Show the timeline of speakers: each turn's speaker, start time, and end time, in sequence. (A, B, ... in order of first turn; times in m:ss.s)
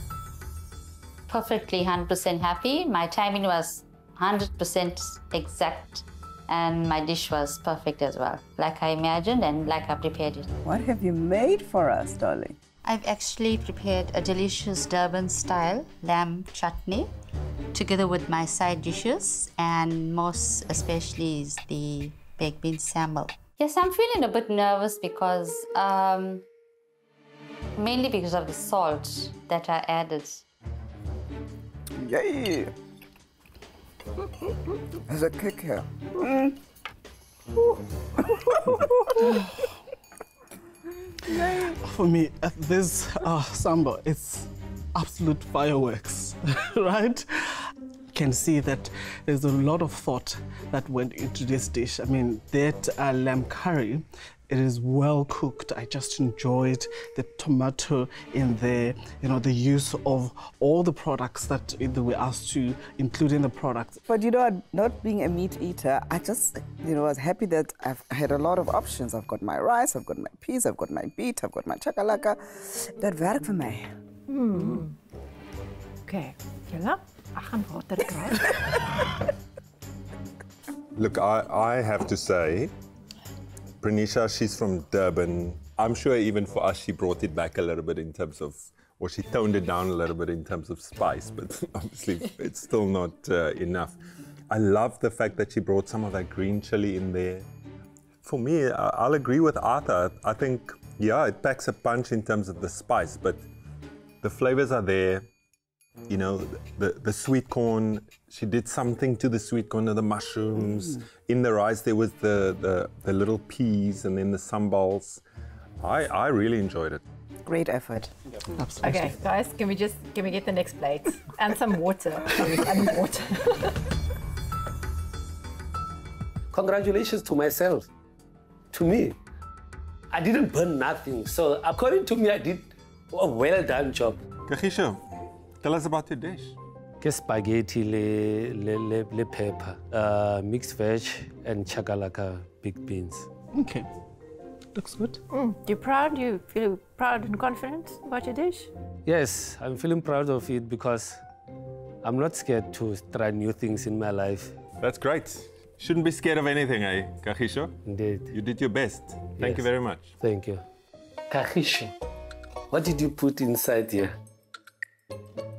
0:01.3-0:10.5 A
0:10.6-0:12.6 B
0:12.8-0:17.1 A
0:17.7-0:26.4 A
0:27.8-0:30.4 A
0:32.0-0:32.7 B
0:35.1-0:36.6 B
0:38.3-0:39.3 B
0:39.2-0:39.5 C
0:41.2-0:41.8 B
0:41.6-1:04.0 C
1:04.0-1:13.9 B
1:14.3-1:15.0 D
1:16.0-1:18.8 D
1:21.0-1:22.7 E
1:23.8-1:34.0 E
1:34.5-1:37.4 E
1:38.2-1:43.4 E
1:44.2-1:45.3 E
1:46.1-1:55.2 E
1:55.8-1:57.0 E
1:57.4-1:58.1 B
1:58.6-1:59.1 C
1:58.8-2:03.8 D
2:06.5-2:07.9 F
2:08.7-2:09.2 F
2:10.1-2:14.2 F
2:14.5-2:15.0 E
2:15.6-2:16.5 E
2:17.0-2:23.3 F
2:23.5-2:23.9 C
2:24.7-2:25.2 C
2:25.3-2:28.7 D
2:29.0-2:31.2 F
2:32.0-2:34.5 F
2:34.8-2:37.7 E
2:37.9-2:38.3 F
2:38.3-2:40.1 E
2:39.4-2:39.6 F
2:40.2-2:40.6 F
2:41.3-2:41.9 F
2:42.7-2:44.2 F